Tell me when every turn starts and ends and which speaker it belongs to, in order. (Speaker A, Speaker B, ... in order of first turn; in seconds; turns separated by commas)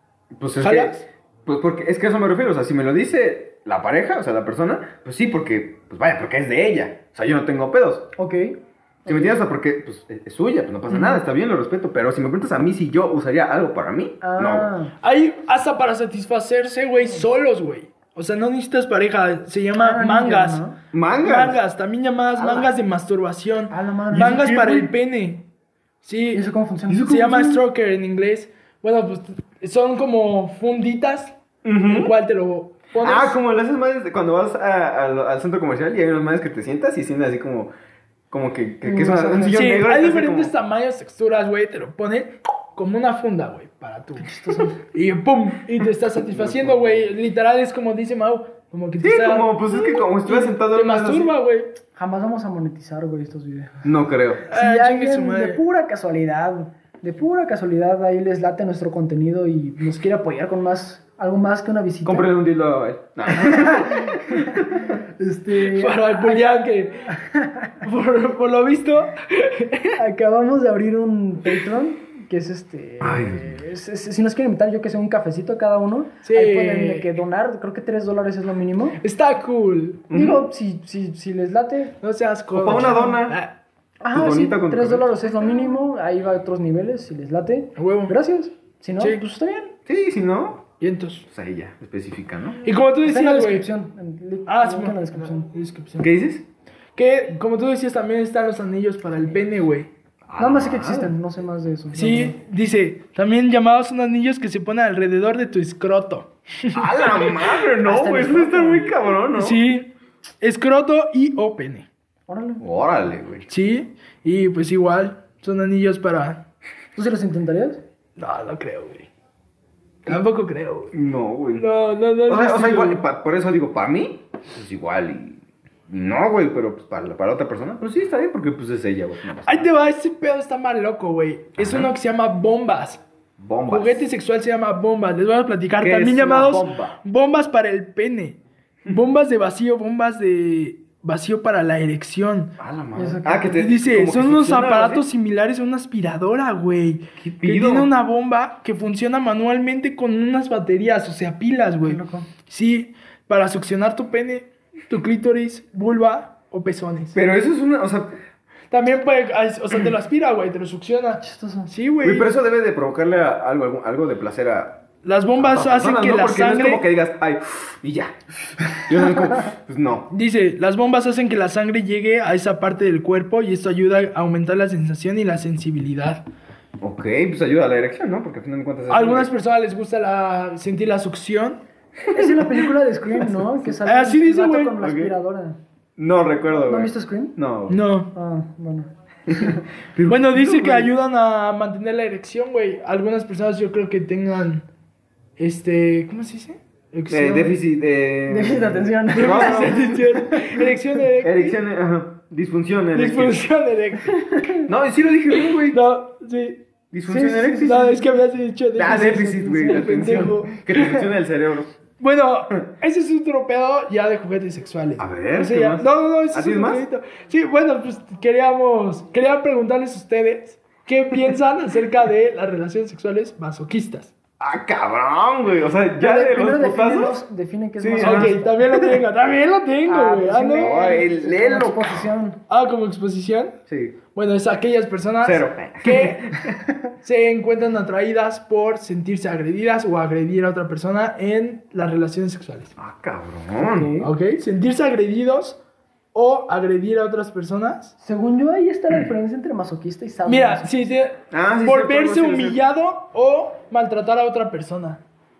Speaker A: 0.3-8.1, Speaker B: 0.6-1.0, Speaker C: 8.2-9.3, Speaker A: 9.1-14.7, Speaker C: 10.9-11.2, Speaker C: 14.2-14.9, Speaker B: 15.0-20.6, Speaker C: 19.8-20.8, Speaker A: 20.9-21.6, Speaker B: 21.2-25.4, Speaker C: 23.7-24.9, Speaker B: 26.0-33.4, Speaker C: 26.3-27.6, Speaker A: 31.6-32.1, Speaker A: 33.0-37.7, Speaker A: 38.3-40.5, Speaker C: 38.8-39.6, Speaker B: 39.5-51.7, Speaker C: 44.2-44.8, Speaker A: 46.3-47.0, Speaker A: 49.0-51.3, Speaker C: 52.0-53.9, Speaker A: 53.8-54.4, Speaker B: 54.5-55.6, Speaker C: 54.5-62.3, Speaker A: 62.0-64.8, Speaker C: 63.3-66.5, Speaker B: 65.5-67.1, Speaker C: 67.1-67.8, Speaker B: 67.8-70.0, Speaker C: 69.9-79.0, Speaker A: 73.0-73.6, Speaker B: 76.2-77.1, Speaker B: 79.0-80.1, Speaker A: 80.1-80.4, Speaker C: 80.1-82.0, Speaker B: 82.0-83.5, Speaker A: 82.5-83.4, Speaker C: 82.7-83.2, Speaker C: 84.0-89.7, Speaker A: 84.1-85.1, Speaker B: 87.8-88.1, Speaker A: 89.9-90.6, Speaker B: 90.8-91.3, Speaker A: 91.3-92.6, Speaker B: 92.6-93.7, Speaker C: 93.0-95.5, Speaker B: 94.5-96.1, Speaker A: 96.0-96.4, Speaker B: 97.0-99.9, Speaker A: 100.3-101.1, Speaker C: 100.4-102.3, Speaker B: 101.9-107.4, Speaker A: 106.7-109.6, Speaker C: 107.8-108.9, Speaker B: 109.3-109.9, Speaker B: 110.4-111.9, Speaker C: 112.3-112.6, Speaker A: 112.6-113.5, Speaker B: 113.5-116.4, Speaker C: 116.9-117.8, Speaker B: 118.2-119.1, Speaker B: 120.0-120.9, Speaker A: 120.9-121.7, Speaker B: 121.5-123.0, Speaker A: 122.2-129.7, Speaker B: 129.4-133.0, Speaker A: 131.6-131.9, Speaker A: 133.4-134.1, Speaker B: 133.7-142.5, Speaker A: 135.8-137.0, Speaker A: 142.6-145.0, Speaker C: 142.9-143.5, Speaker B: 143.5-157.2, Speaker A: 147.2-147.9, Speaker C: 151.8-152.3, Speaker A: 157.1-158.1, Speaker B: 158.7-162.3, Speaker C: 161.2-161.7, Speaker A: 162.0-164.8, Speaker B: 165.0-166.8, Speaker A: 165.4-170.1, Speaker B: 170.1-176.2, Speaker A: 176.8-179.3, Speaker B: 178.9-181.6, Speaker C: 182.1-185.6, Speaker B: 183.8-184.8, Speaker A: 184.8-185.1, Speaker A: 186.0-187.8, Speaker C: 186.6-187.3, Speaker B: 187.7-188.1, Speaker C: 188.1-189.6, Speaker A: 189.3-190.9, Speaker B: 190.1-194.6, Speaker B: 195.4-197.6, Speaker A: 197.1-200.0, Speaker C: 198.3-200.6, Speaker B: 199.1-201.6, Speaker A: 201.2-203.4, Speaker B: 202.9-204.4, Speaker C: 204.3-204.7, Speaker A: 204.7-205.8, Speaker B: 205.3-206.6, Speaker A: 206.9-208.0, Speaker C: 207.1-208.0, Speaker B: 207.6-211.1, Speaker A: 208.7-211.8, Speaker C: 209.4-210.3, Speaker B: 212.0-224.1, Speaker A: 215.0-216.8, Speaker A: 224.4-227.2, Speaker C: 226.0-228.6, Speaker A: 227.8-228.4, Speaker B: 228.0-230.9, Speaker C: 229.8-232.4, Speaker A: 230.5-232.1, Speaker B: 232.5-233.6, Speaker A: 233.7-234.0, Speaker B: 234.1-236.4, Speaker A: 235.2-236.6, Speaker B: 237.0-242.7, Speaker A: 242.8-243.9, Speaker C: 243.6-244.1, Speaker B: 244.0-245.6, Speaker B: 246.1-247.9, Speaker C: 248.0-250.9, Speaker B: 250.2-255.0, Speaker A: 251.3-252.6